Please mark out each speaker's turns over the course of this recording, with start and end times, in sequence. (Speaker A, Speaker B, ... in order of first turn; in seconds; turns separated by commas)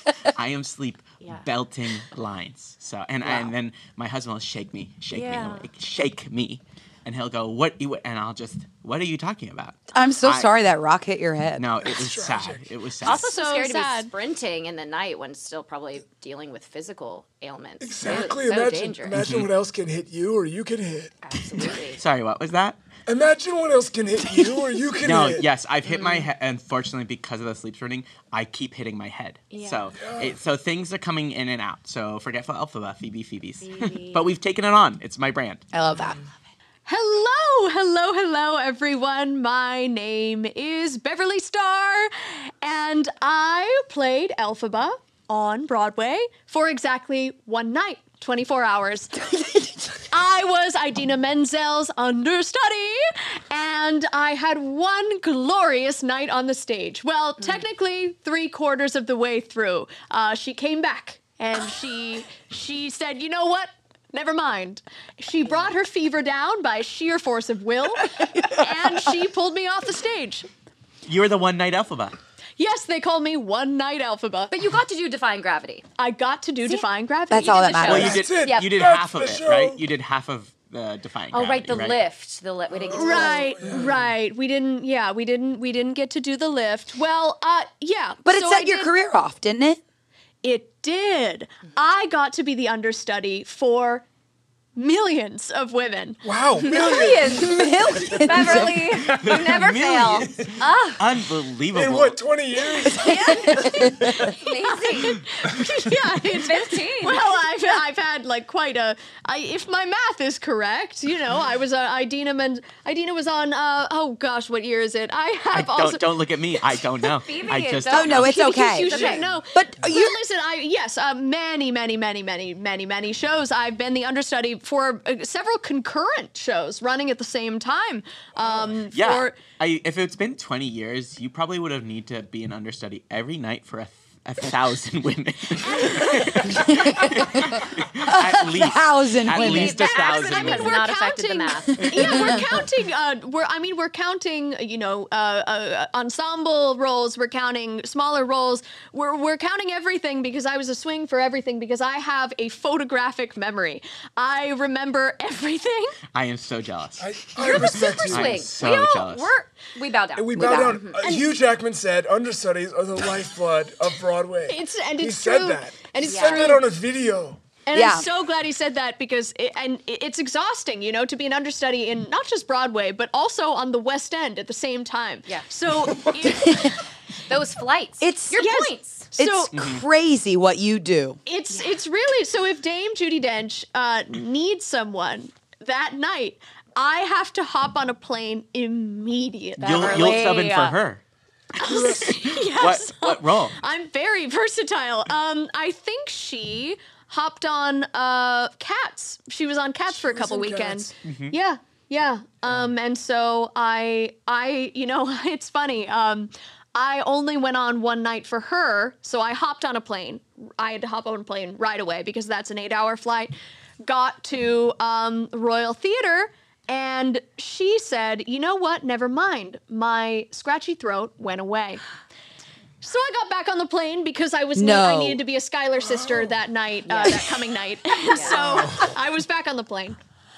Speaker A: 0.3-10.5, Speaker B: 3.2-3.5, Speaker C: 5.1-5.7, Speaker B: 9.9-11.6, Speaker A: 11.6-13.3, Speaker D: 11.8-12.7, Speaker C: 13.0-19.2, Speaker E: 13.1-14.1, Speaker D: 17.8-21.8, Speaker A: 19.1-19.5, Speaker C: 21.2-22.0, Speaker A: 22.0-22.8, Speaker D: 23.1-25.5, Speaker B: 24.4-24.6, Speaker A: 25.0-35.6, Speaker C: 25.9-26.3, Speaker C: 29.5-29.9, Speaker D: 29.9-30.4, Speaker C: 33.6-34.3, Speaker B: 35.7-36.2, Speaker E: 36.9-49.2, Speaker B: 49.3-49.8, Speaker E: 50.1-70.5, Speaker A: 71.0-72.2, Speaker E: 72.6-74.5, Speaker C: 74.5-75.8, Speaker E: 76.0-78.1, Speaker B: 77.3-78.2, Speaker C: 77.5-78.7, Speaker A: 77.8-82.0, Speaker D: 78.0-79.8, Speaker C: 81.3-83.6, Speaker D: 82.7-84.1, Speaker E: 82.9-88.9, Speaker B: 88.2-89.8, Speaker E: 90.4-94.0, Speaker E: 94.8-96.2, Speaker D: 96.2-99.6, Speaker C: 96.6-101.0, Speaker B: 97.2-98.8, Speaker A: 99.0-102.2, Speaker D: 101.7-104.1, Speaker E: 102.9-116.0, Speaker B: 103.0-103.9, Speaker C: 103.1-105.2, Speaker C: 106.2-107.6, Speaker A: 115.5-118.3, Speaker C: 117.1-119.3, Speaker B: 117.9-120.2, Speaker E: 118.2-129.4, Speaker A: 128.9-140.8, Speaker B: 136.4-139.9, Speaker C: 139.3-142.4, Speaker E: 139.4-156.0, Speaker B: 142.1-142.4, Speaker A: 156.1-159.3, Speaker D: 157.0-158.4, Speaker C: 157.4-161.0, Speaker D: 160.1-167.4, Speaker B: 160.3-160.8, Speaker E: 164.5-166.6, Speaker C: 166.1-166.6, Speaker E: 167.7-176.8, Speaker B: 167.7-168.1, Speaker B: 176.4-176.7, Speaker C: 177.3-179.1, Speaker B: 178.0-178.5, Speaker E: 178.3-179.5, Speaker B: 179.2-181.2, Speaker A: 179.5-179.8, Speaker E: 181.2-190.0, Speaker C: 181.5-181.8, Speaker C: 189.6-190.8, Speaker A: 189.6-191.0, Speaker E: 191.6-221.8, Speaker D: 191.6-192.4, Speaker A: 192.6-193.6, Speaker D: 199.9-200.9, Speaker A: 201.0-201.3, Speaker E: 222.8-230.0, Speaker B: 224.5-225.2, Speaker D: 225.8-226.3, Speaker C: 226.9-227.2, Speaker C: 228.1-228.7, Speaker D: 228.2-228.9